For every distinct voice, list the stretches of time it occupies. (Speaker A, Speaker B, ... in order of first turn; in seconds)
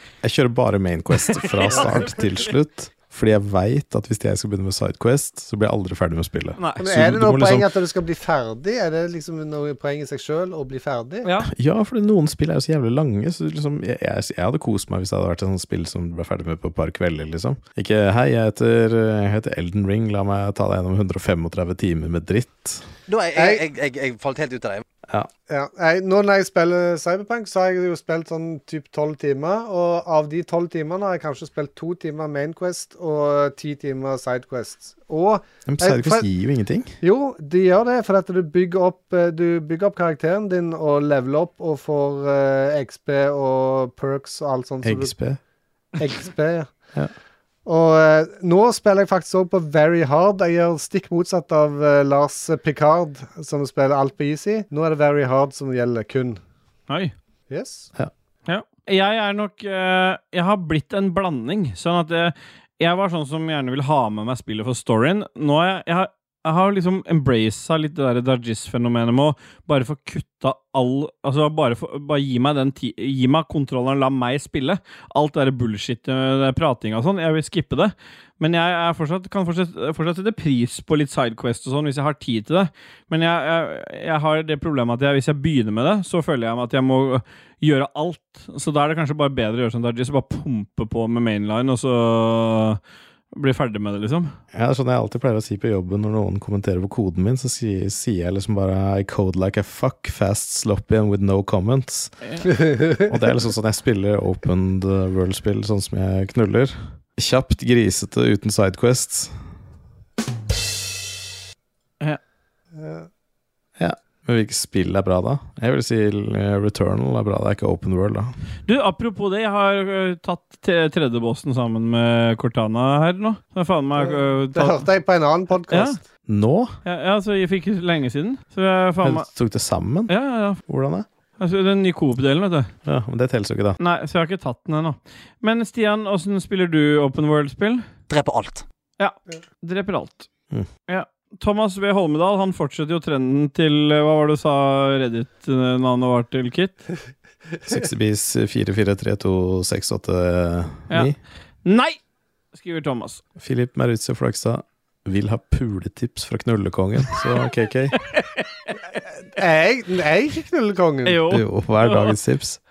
Speaker A: 0.2-7.7, 11.5-22.9, 35.6-37.0, 44.8-45.4, 94.5-102.1, 103.0-109.3, 113.8-118.3, 126.3-126.7, 129.0-130.1, 130.6-131.1, 132.8-133.8, 147.7-151.2, 153.4-158.0, 161.3-162.6
Speaker B: 1.3-2.5, 6.6-6.8, 11.2-11.5, 56.9-57.1, 58.5-92.8, 93.3-94.3, 118.7-124.8, 125.7-126.0, 126.8-129.3, 130.1-130.6, 131.4-132.7, 133.8-137.8, 139.0-140.3, 140.9-146.8, 151.6-152.0, 152.5-153.2, 158.1-158.7, 161.1-162.1
Speaker C: 1.8-2.1, 6.8-11.3, 23.3-23.6, 25.5-36.3, 37.0-45.1, 46.0-46.7, 47.6-56.4, 57.5-57.9, 102.5-103.1, 112.8-113.1, 124.0-126.0, 159.2-161.2
Speaker D: 23.1-24.8, 138.1-138.6